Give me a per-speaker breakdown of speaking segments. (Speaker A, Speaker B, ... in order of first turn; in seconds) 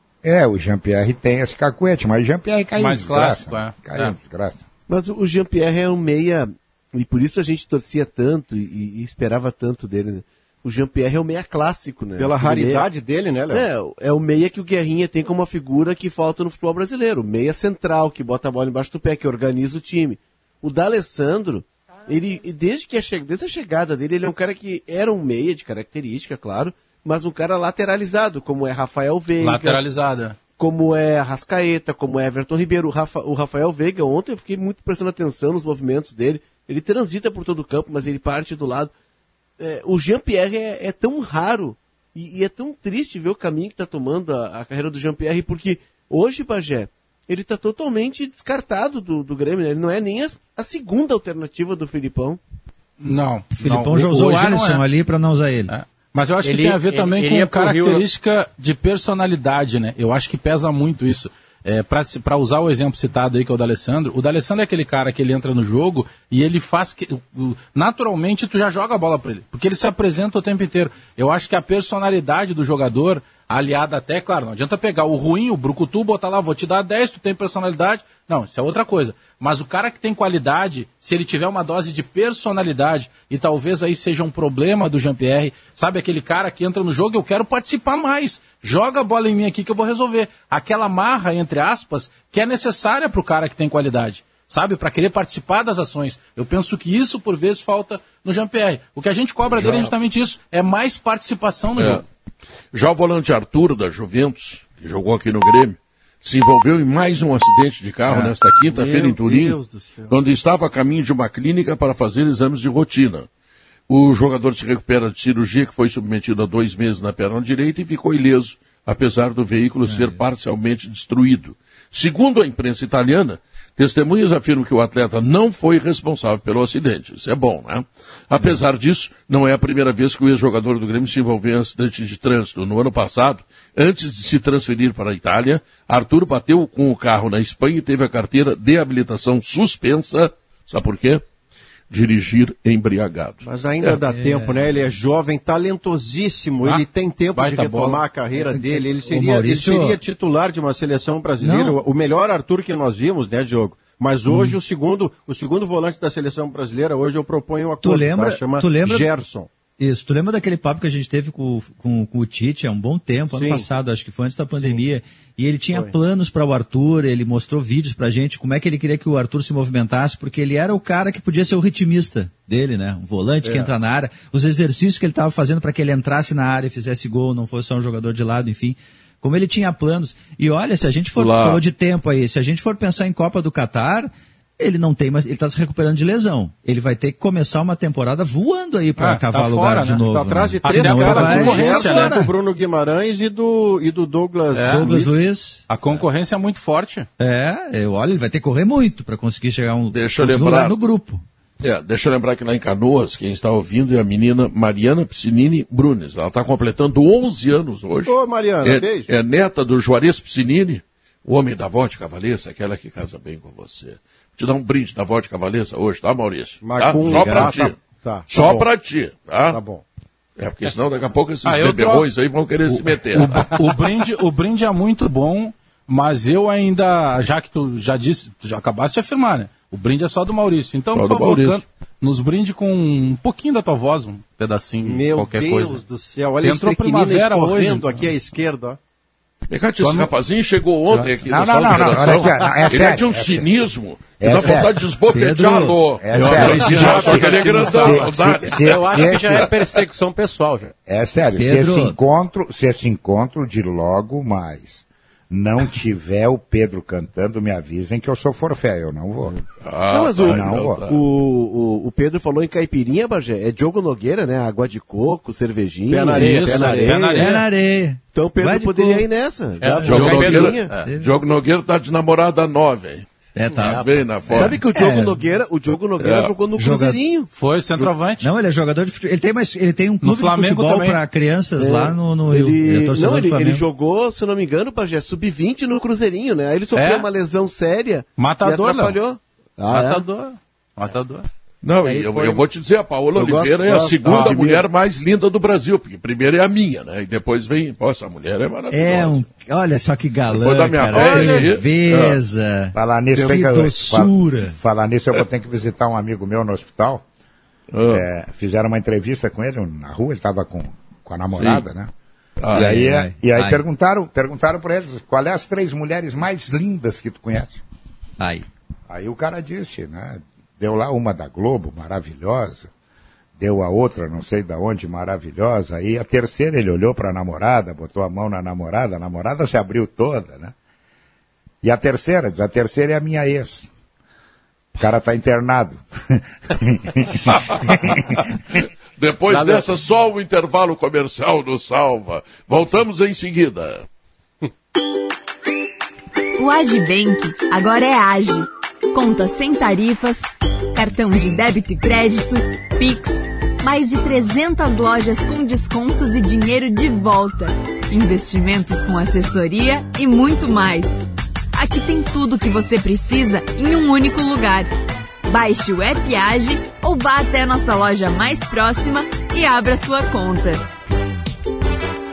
Speaker A: 0.2-4.6, 240.9-243.5, 244.2-244.8, 246.0-249.5, 250.8-259.4, 260.2-260.8, 302.7-307.0, 307.9-311.9, 312.5-317.6, 318.9-322.7, 323.4-330.5, 331.6-333.7, 334.8-338.1
Speaker B: 2.8-4.1, 29.4-30.4, 53.0-54.8, 55.7-102.0, 146.6-148.0, 189.0-190.0, 190.6-192.2, 194.5-194.9, 195.7-197.1, 221.4-222.1, 222.7-235.8, 236.4-238.1, 239.8-240.1, 266.1-267.4, 269.9-270.9, 277.3-278.3, 280.0-281.0, 286.7-287.1, 288.2-289.0, 289.7-291.3, 294.1-294.4, 300.9-301.5
Speaker C: 4.9-12.9, 13.5-29.8, 30.6-38.9, 39.6-52.4, 259.9-267.3, 268.1-270.7, 274.3-277.3, 281.6-290.0, 291.9-292.4, 293.1-294.6
Speaker D: 12.2-13.7, 108.2-110.1, 143.4-159.5, 163.3-163.7, 190.0-195.2, 208.0-209.1, 216.6-218.7, 219.5-219.8, 234.8-238.8, 265.9-266.7
Speaker E: 53.5-55.7, 119.8-120.2, 144.0-144.6, 148.4-150.0, 151.4-151.8, 154.3-154.6, 157.8-159.1, 159.8-192.3, 194.6-196.0, 197.2-201.2, 245.1-245.8, 246.4-247.1, 251.3-252.0, 267.2-269.1, 269.6-270.2, 270.7-271.1, 273.3-275.1, 276.6-277.0, 278.2-283.6, 298.7-304.6, 312.5-313.6, 318.2-318.4
Speaker F: 56.4-58.0, 246.3-250.7, 269.7-270.2, 273.5-273.9, 339.3-339.7
Speaker G: 99.5-99.9, 101.8-102.0, 102.7-113.3, 113.9-141.2, 141.9-143.4, 181.2-181.6, 199.9-200.7, 201.6-219.6, 220.4-223.6, 230.9-231.6, 239.5-249.6, 259.6-261.0, 269.8-273.1, 273.6-274.6, 276.0-276.3, 291.6-299.2, 300.3-302.2, 307.7-308.1, 311.3-311.6, 312.4-312.8, 337.3-337.6, 338.5-343.8
Speaker H: 346.4-361.0, 361.5-364.7, 365.3-370.7